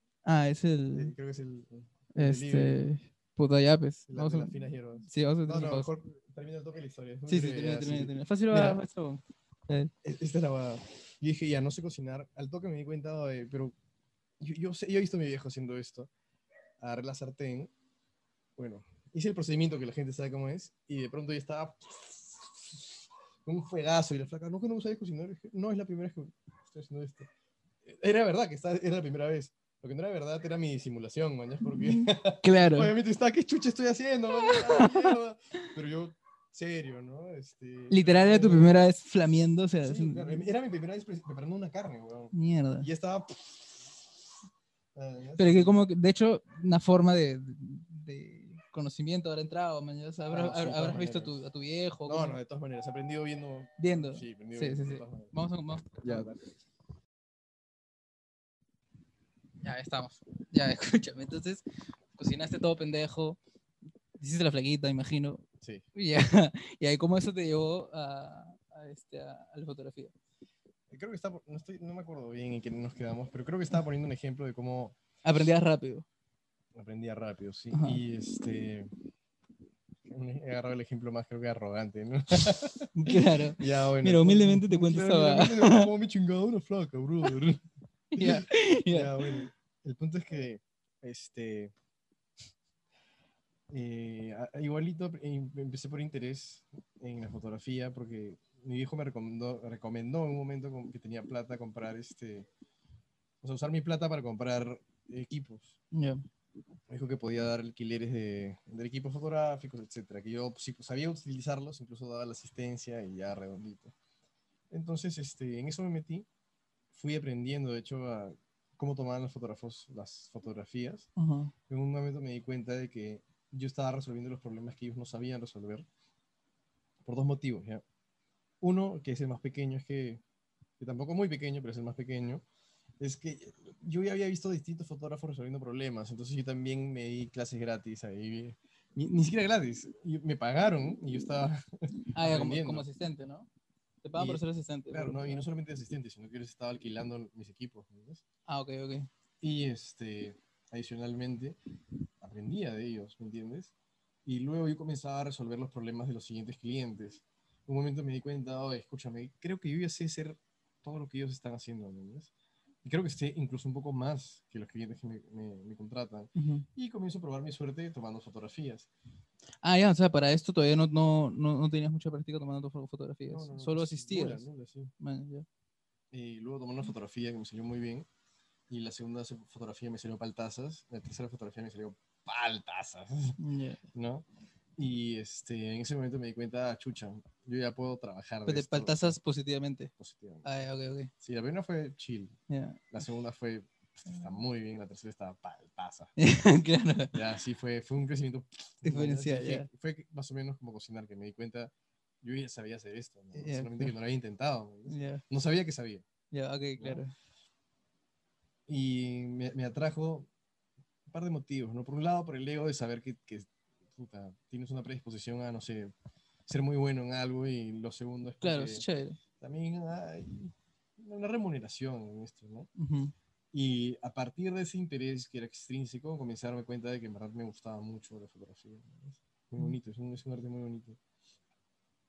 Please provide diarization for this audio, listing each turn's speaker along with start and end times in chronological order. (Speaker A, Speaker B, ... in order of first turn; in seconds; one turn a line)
Speaker A: 0.2-1.1
Speaker B: 0.9-2.9
Speaker A: 2.2-5.9
Speaker B: 4.1-8.8
Speaker A: 7.3-9.9
Speaker B: 10.0-13.8
Speaker B: 14.4-16.1
Speaker B: 16.8-17.7
Speaker B: 18.6-27.3
Speaker B: 27.8-38.8
Speaker A: 31.7-32.9
Speaker A: 34.4-35.1
Speaker A: 37.9-40.5
Speaker B: 39.8-44.3
Speaker A: 42.3-42.9
Speaker B: 45.0-45.8
Speaker A: 45.4-52.4
Speaker B: 50.3-51.3
Speaker B: 52.1-55.3
Speaker A: 53.8-56.4
Speaker B: 56.0-56.4
Speaker A: 59.6-61.6
Speaker A: 62.1-63.4
Speaker A: 64.2-70.1
Speaker B: 65.6-65.9
Speaker B: 70.9-75.0
Speaker A: 75.2-76.1
Speaker B: 76.8-78.9
Speaker A: 77.7-78.0
Speaker B: 80.1-91.7
Speaker A: 82.9-85.9
Speaker A: 88.2-89.4
Speaker B: 93.7-102.5
Speaker B: 103.4-105.8
Speaker A: 105.9-106.2
Speaker B: 106.9-113.9
Speaker B: 114.7-116.3
Speaker B: 116.9-121.1
Speaker A: 121.2-121.5
Speaker B: 121.7-125.9
Speaker B: 127.0-127.8
Speaker B: 128.6-130.2
Speaker B: 130.8-132.4
Speaker B: 133.0-142.8
Speaker A: 142.2-143.5
Speaker A: 144.0-145.4
Speaker B: 144.2-148.2
Speaker A: 148.5-149.1
Speaker B: 149.4-151.6
Speaker B: 152.2-153.7
Speaker B: 154.2-162.3
Speaker B: 162.8-168.9
Speaker A: 166.4-166.7
Speaker A: 169.6-174.5
Speaker B: 173.3-174.9
Speaker A: 175.0-175.5
Speaker B: 176.1-178.1
Speaker B: 178.7-183.4
Speaker A: 183.4-183.8
Speaker B: 183.9-184.3
Speaker B: 184.8-189.2
Speaker A: 188.5-189.9
Speaker B: 190.0-190.5
Speaker A: 190.4-191.1
Speaker B: 191.2-192.4
Speaker A: 192.5-192.8
Speaker B: 192.9-196.1
Speaker A: 196.2-197.2
Speaker B: 197.1-206.1
Speaker A: 198.8-199.7
Speaker A: 203.3-203.9
Speaker A: 204.9-205.2
Speaker A: 206.3-207.1
Speaker B: 206.8-207.0
Speaker B: 208.7-210.3
Speaker B: 211.1-215.9
Speaker B: 216.5-218.8
Speaker A: 218.4-219.2
Speaker B: 219.4-222.7
Speaker A: 222.8-223.1
Speaker B: 223.5-231.0